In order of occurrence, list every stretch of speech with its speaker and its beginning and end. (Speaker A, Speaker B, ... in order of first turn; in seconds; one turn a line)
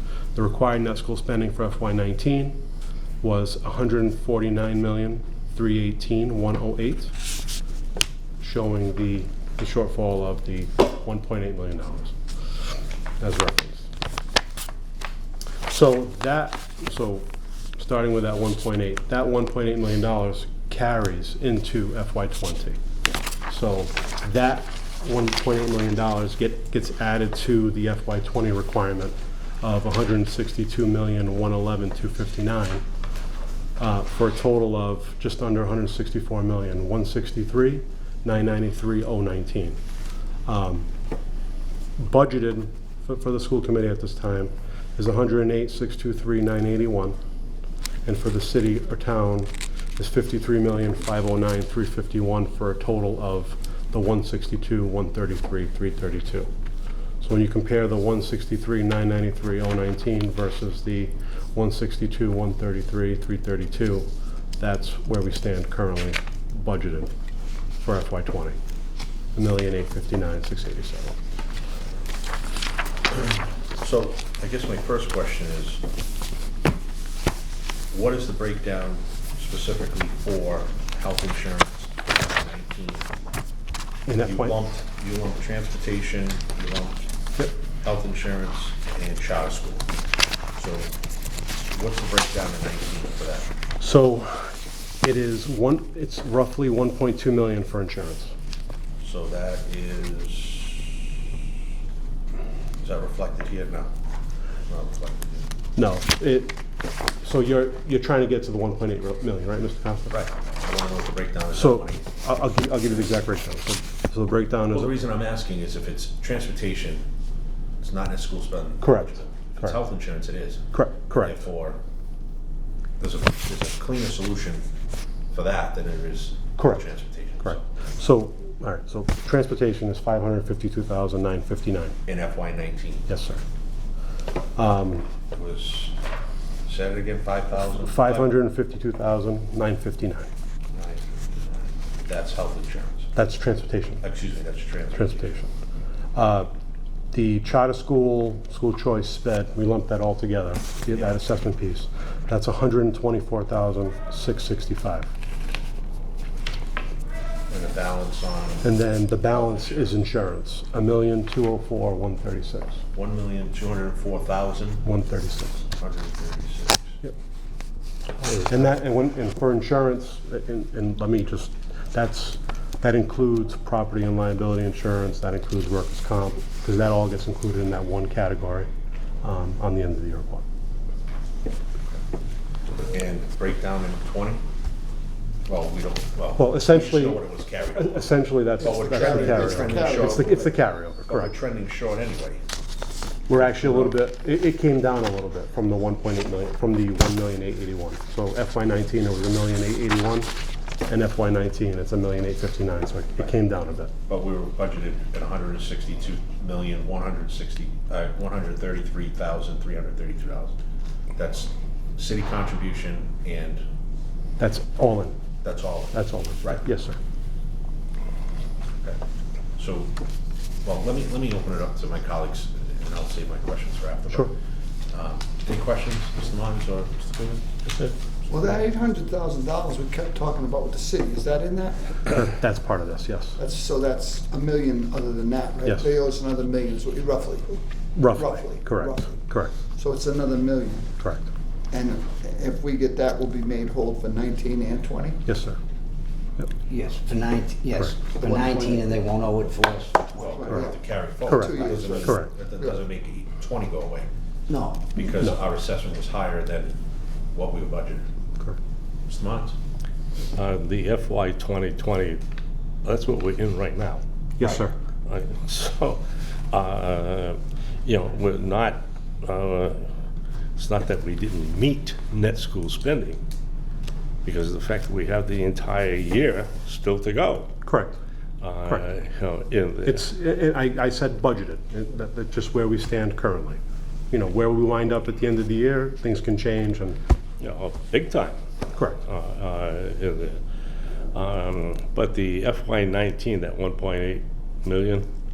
Speaker A: 0.3-2.6
Speaker A: 3.2-7.1
Speaker A: 8.4-12.2
Speaker A: 13.2-13.9
Speaker A: 15.7-22.8
Speaker A: 23.5-32.8
Speaker A: 33.8-39.8
Speaker A: 40.5-40.9
Speaker A: 42.0-47.2
Speaker A: 48.0-56.5
Speaker A: 57.2-67.1
Speaker A: 67.8-68.6
Speaker A: 69.3-71.2
Speaker B: 73.1-75.8
Speaker B: 77.9-83.1
Speaker A: 84.1-84.6
Speaker B: 84.2-87.1
Speaker B: 87.8-89.9
Speaker B: 90.6-90.9
Speaker B: 91.7-93.5
Speaker A: 93.8-98.3
Speaker B: 99.0-100.9
Speaker B: 102.8-103.9
Speaker B: 104.7-105.5
Speaker A: 105.8-106.6
Speaker A: 107.2-110.1
Speaker B: 110.1-112.1
Speaker A: 111.5-114.9
Speaker B: 114.7-117.1
Speaker B: 117.8-121.8
Speaker A: 118.8-119.8
Speaker A: 120.7-121.4
Speaker B: 123.0-124.7
Speaker B: 125.3-127.6
Speaker A: 126.6-126.8
Speaker A: 127.4-132.0
Speaker B: 132.1-133.1
Speaker A: 133.1-133.4
Speaker A: 134.6-135.1
Speaker B: 135.3-136.0
Speaker B: 136.7-138.3
Speaker A: 137.8-140.3
Speaker B: 140.7-143.1
Speaker A: 143.2-144.0
Speaker B: 144.0-145.3
Speaker A: 144.9-145.5
Speaker A: 146.2-146.5
Speaker A: 147.1-155.1
Speaker B: 157.5-158.8
Speaker A: 158.6-162.8
Speaker B: 159.3-159.9
Speaker B: 162.9-164.9
Speaker A: 164.8-165.7
Speaker B: 165.8-167.0
Speaker A: 168.5-178.7
Speaker A: 179.2-180.4
Speaker B: 182.8-184.4
Speaker B: 185.5-190.5
Speaker A: 186.4-187.2
Speaker A: 187.8-191.3
Speaker C: 188.6-190.5
Speaker B: 191.1-192.4
Speaker A: 193.3-200.3
Speaker B: 193.4-194.0
Speaker A: 200.9-203.9
Speaker B: 204.1-210.5
Speaker B: 211.2-213.6
Speaker A: 214.4-215.2
Speaker B: 215.4-216.6
Speaker A: 215.9-217.0
Speaker B: 219.6-219.9
Speaker B: 220.6-224.3
Speaker B: 224.9-227.9
Speaker C: 228.3-232.3
Speaker A: 232.2-233.4
Speaker C: 233.4-240.9
Speaker A: 238.0-239.5
Speaker A: 241.0-241.3
Speaker C: 241.7-245.2
Speaker A: 245.3-245.6
Speaker D: 246.7-250.3
Speaker C: 248.2-249.1
Speaker B: 250.2-254.1
Speaker C: 250.2-252.8
Speaker A: 251.2-252.3
Speaker D: 254.5-254.9
Speaker B: 254.9-256.8
Speaker B: 257.3-258.1
Speaker B: 259.1-259.6
Speaker E: 260.4-262.2
Speaker E: 262.8-269.8
Speaker A: 264.4-264.7
Speaker E: 270.6-273.2
Speaker E: 274.2-277.6
Speaker A: 277.6-278.0
Speaker E: 278.4-280.1
Speaker A: 279.9-283.6
Speaker A: 284.1-287.0
Speaker E: 287.4-288.4
Speaker A: 288.7-289.0
Speaker E: 289.1-290.4
Speaker E: 291.1-295.1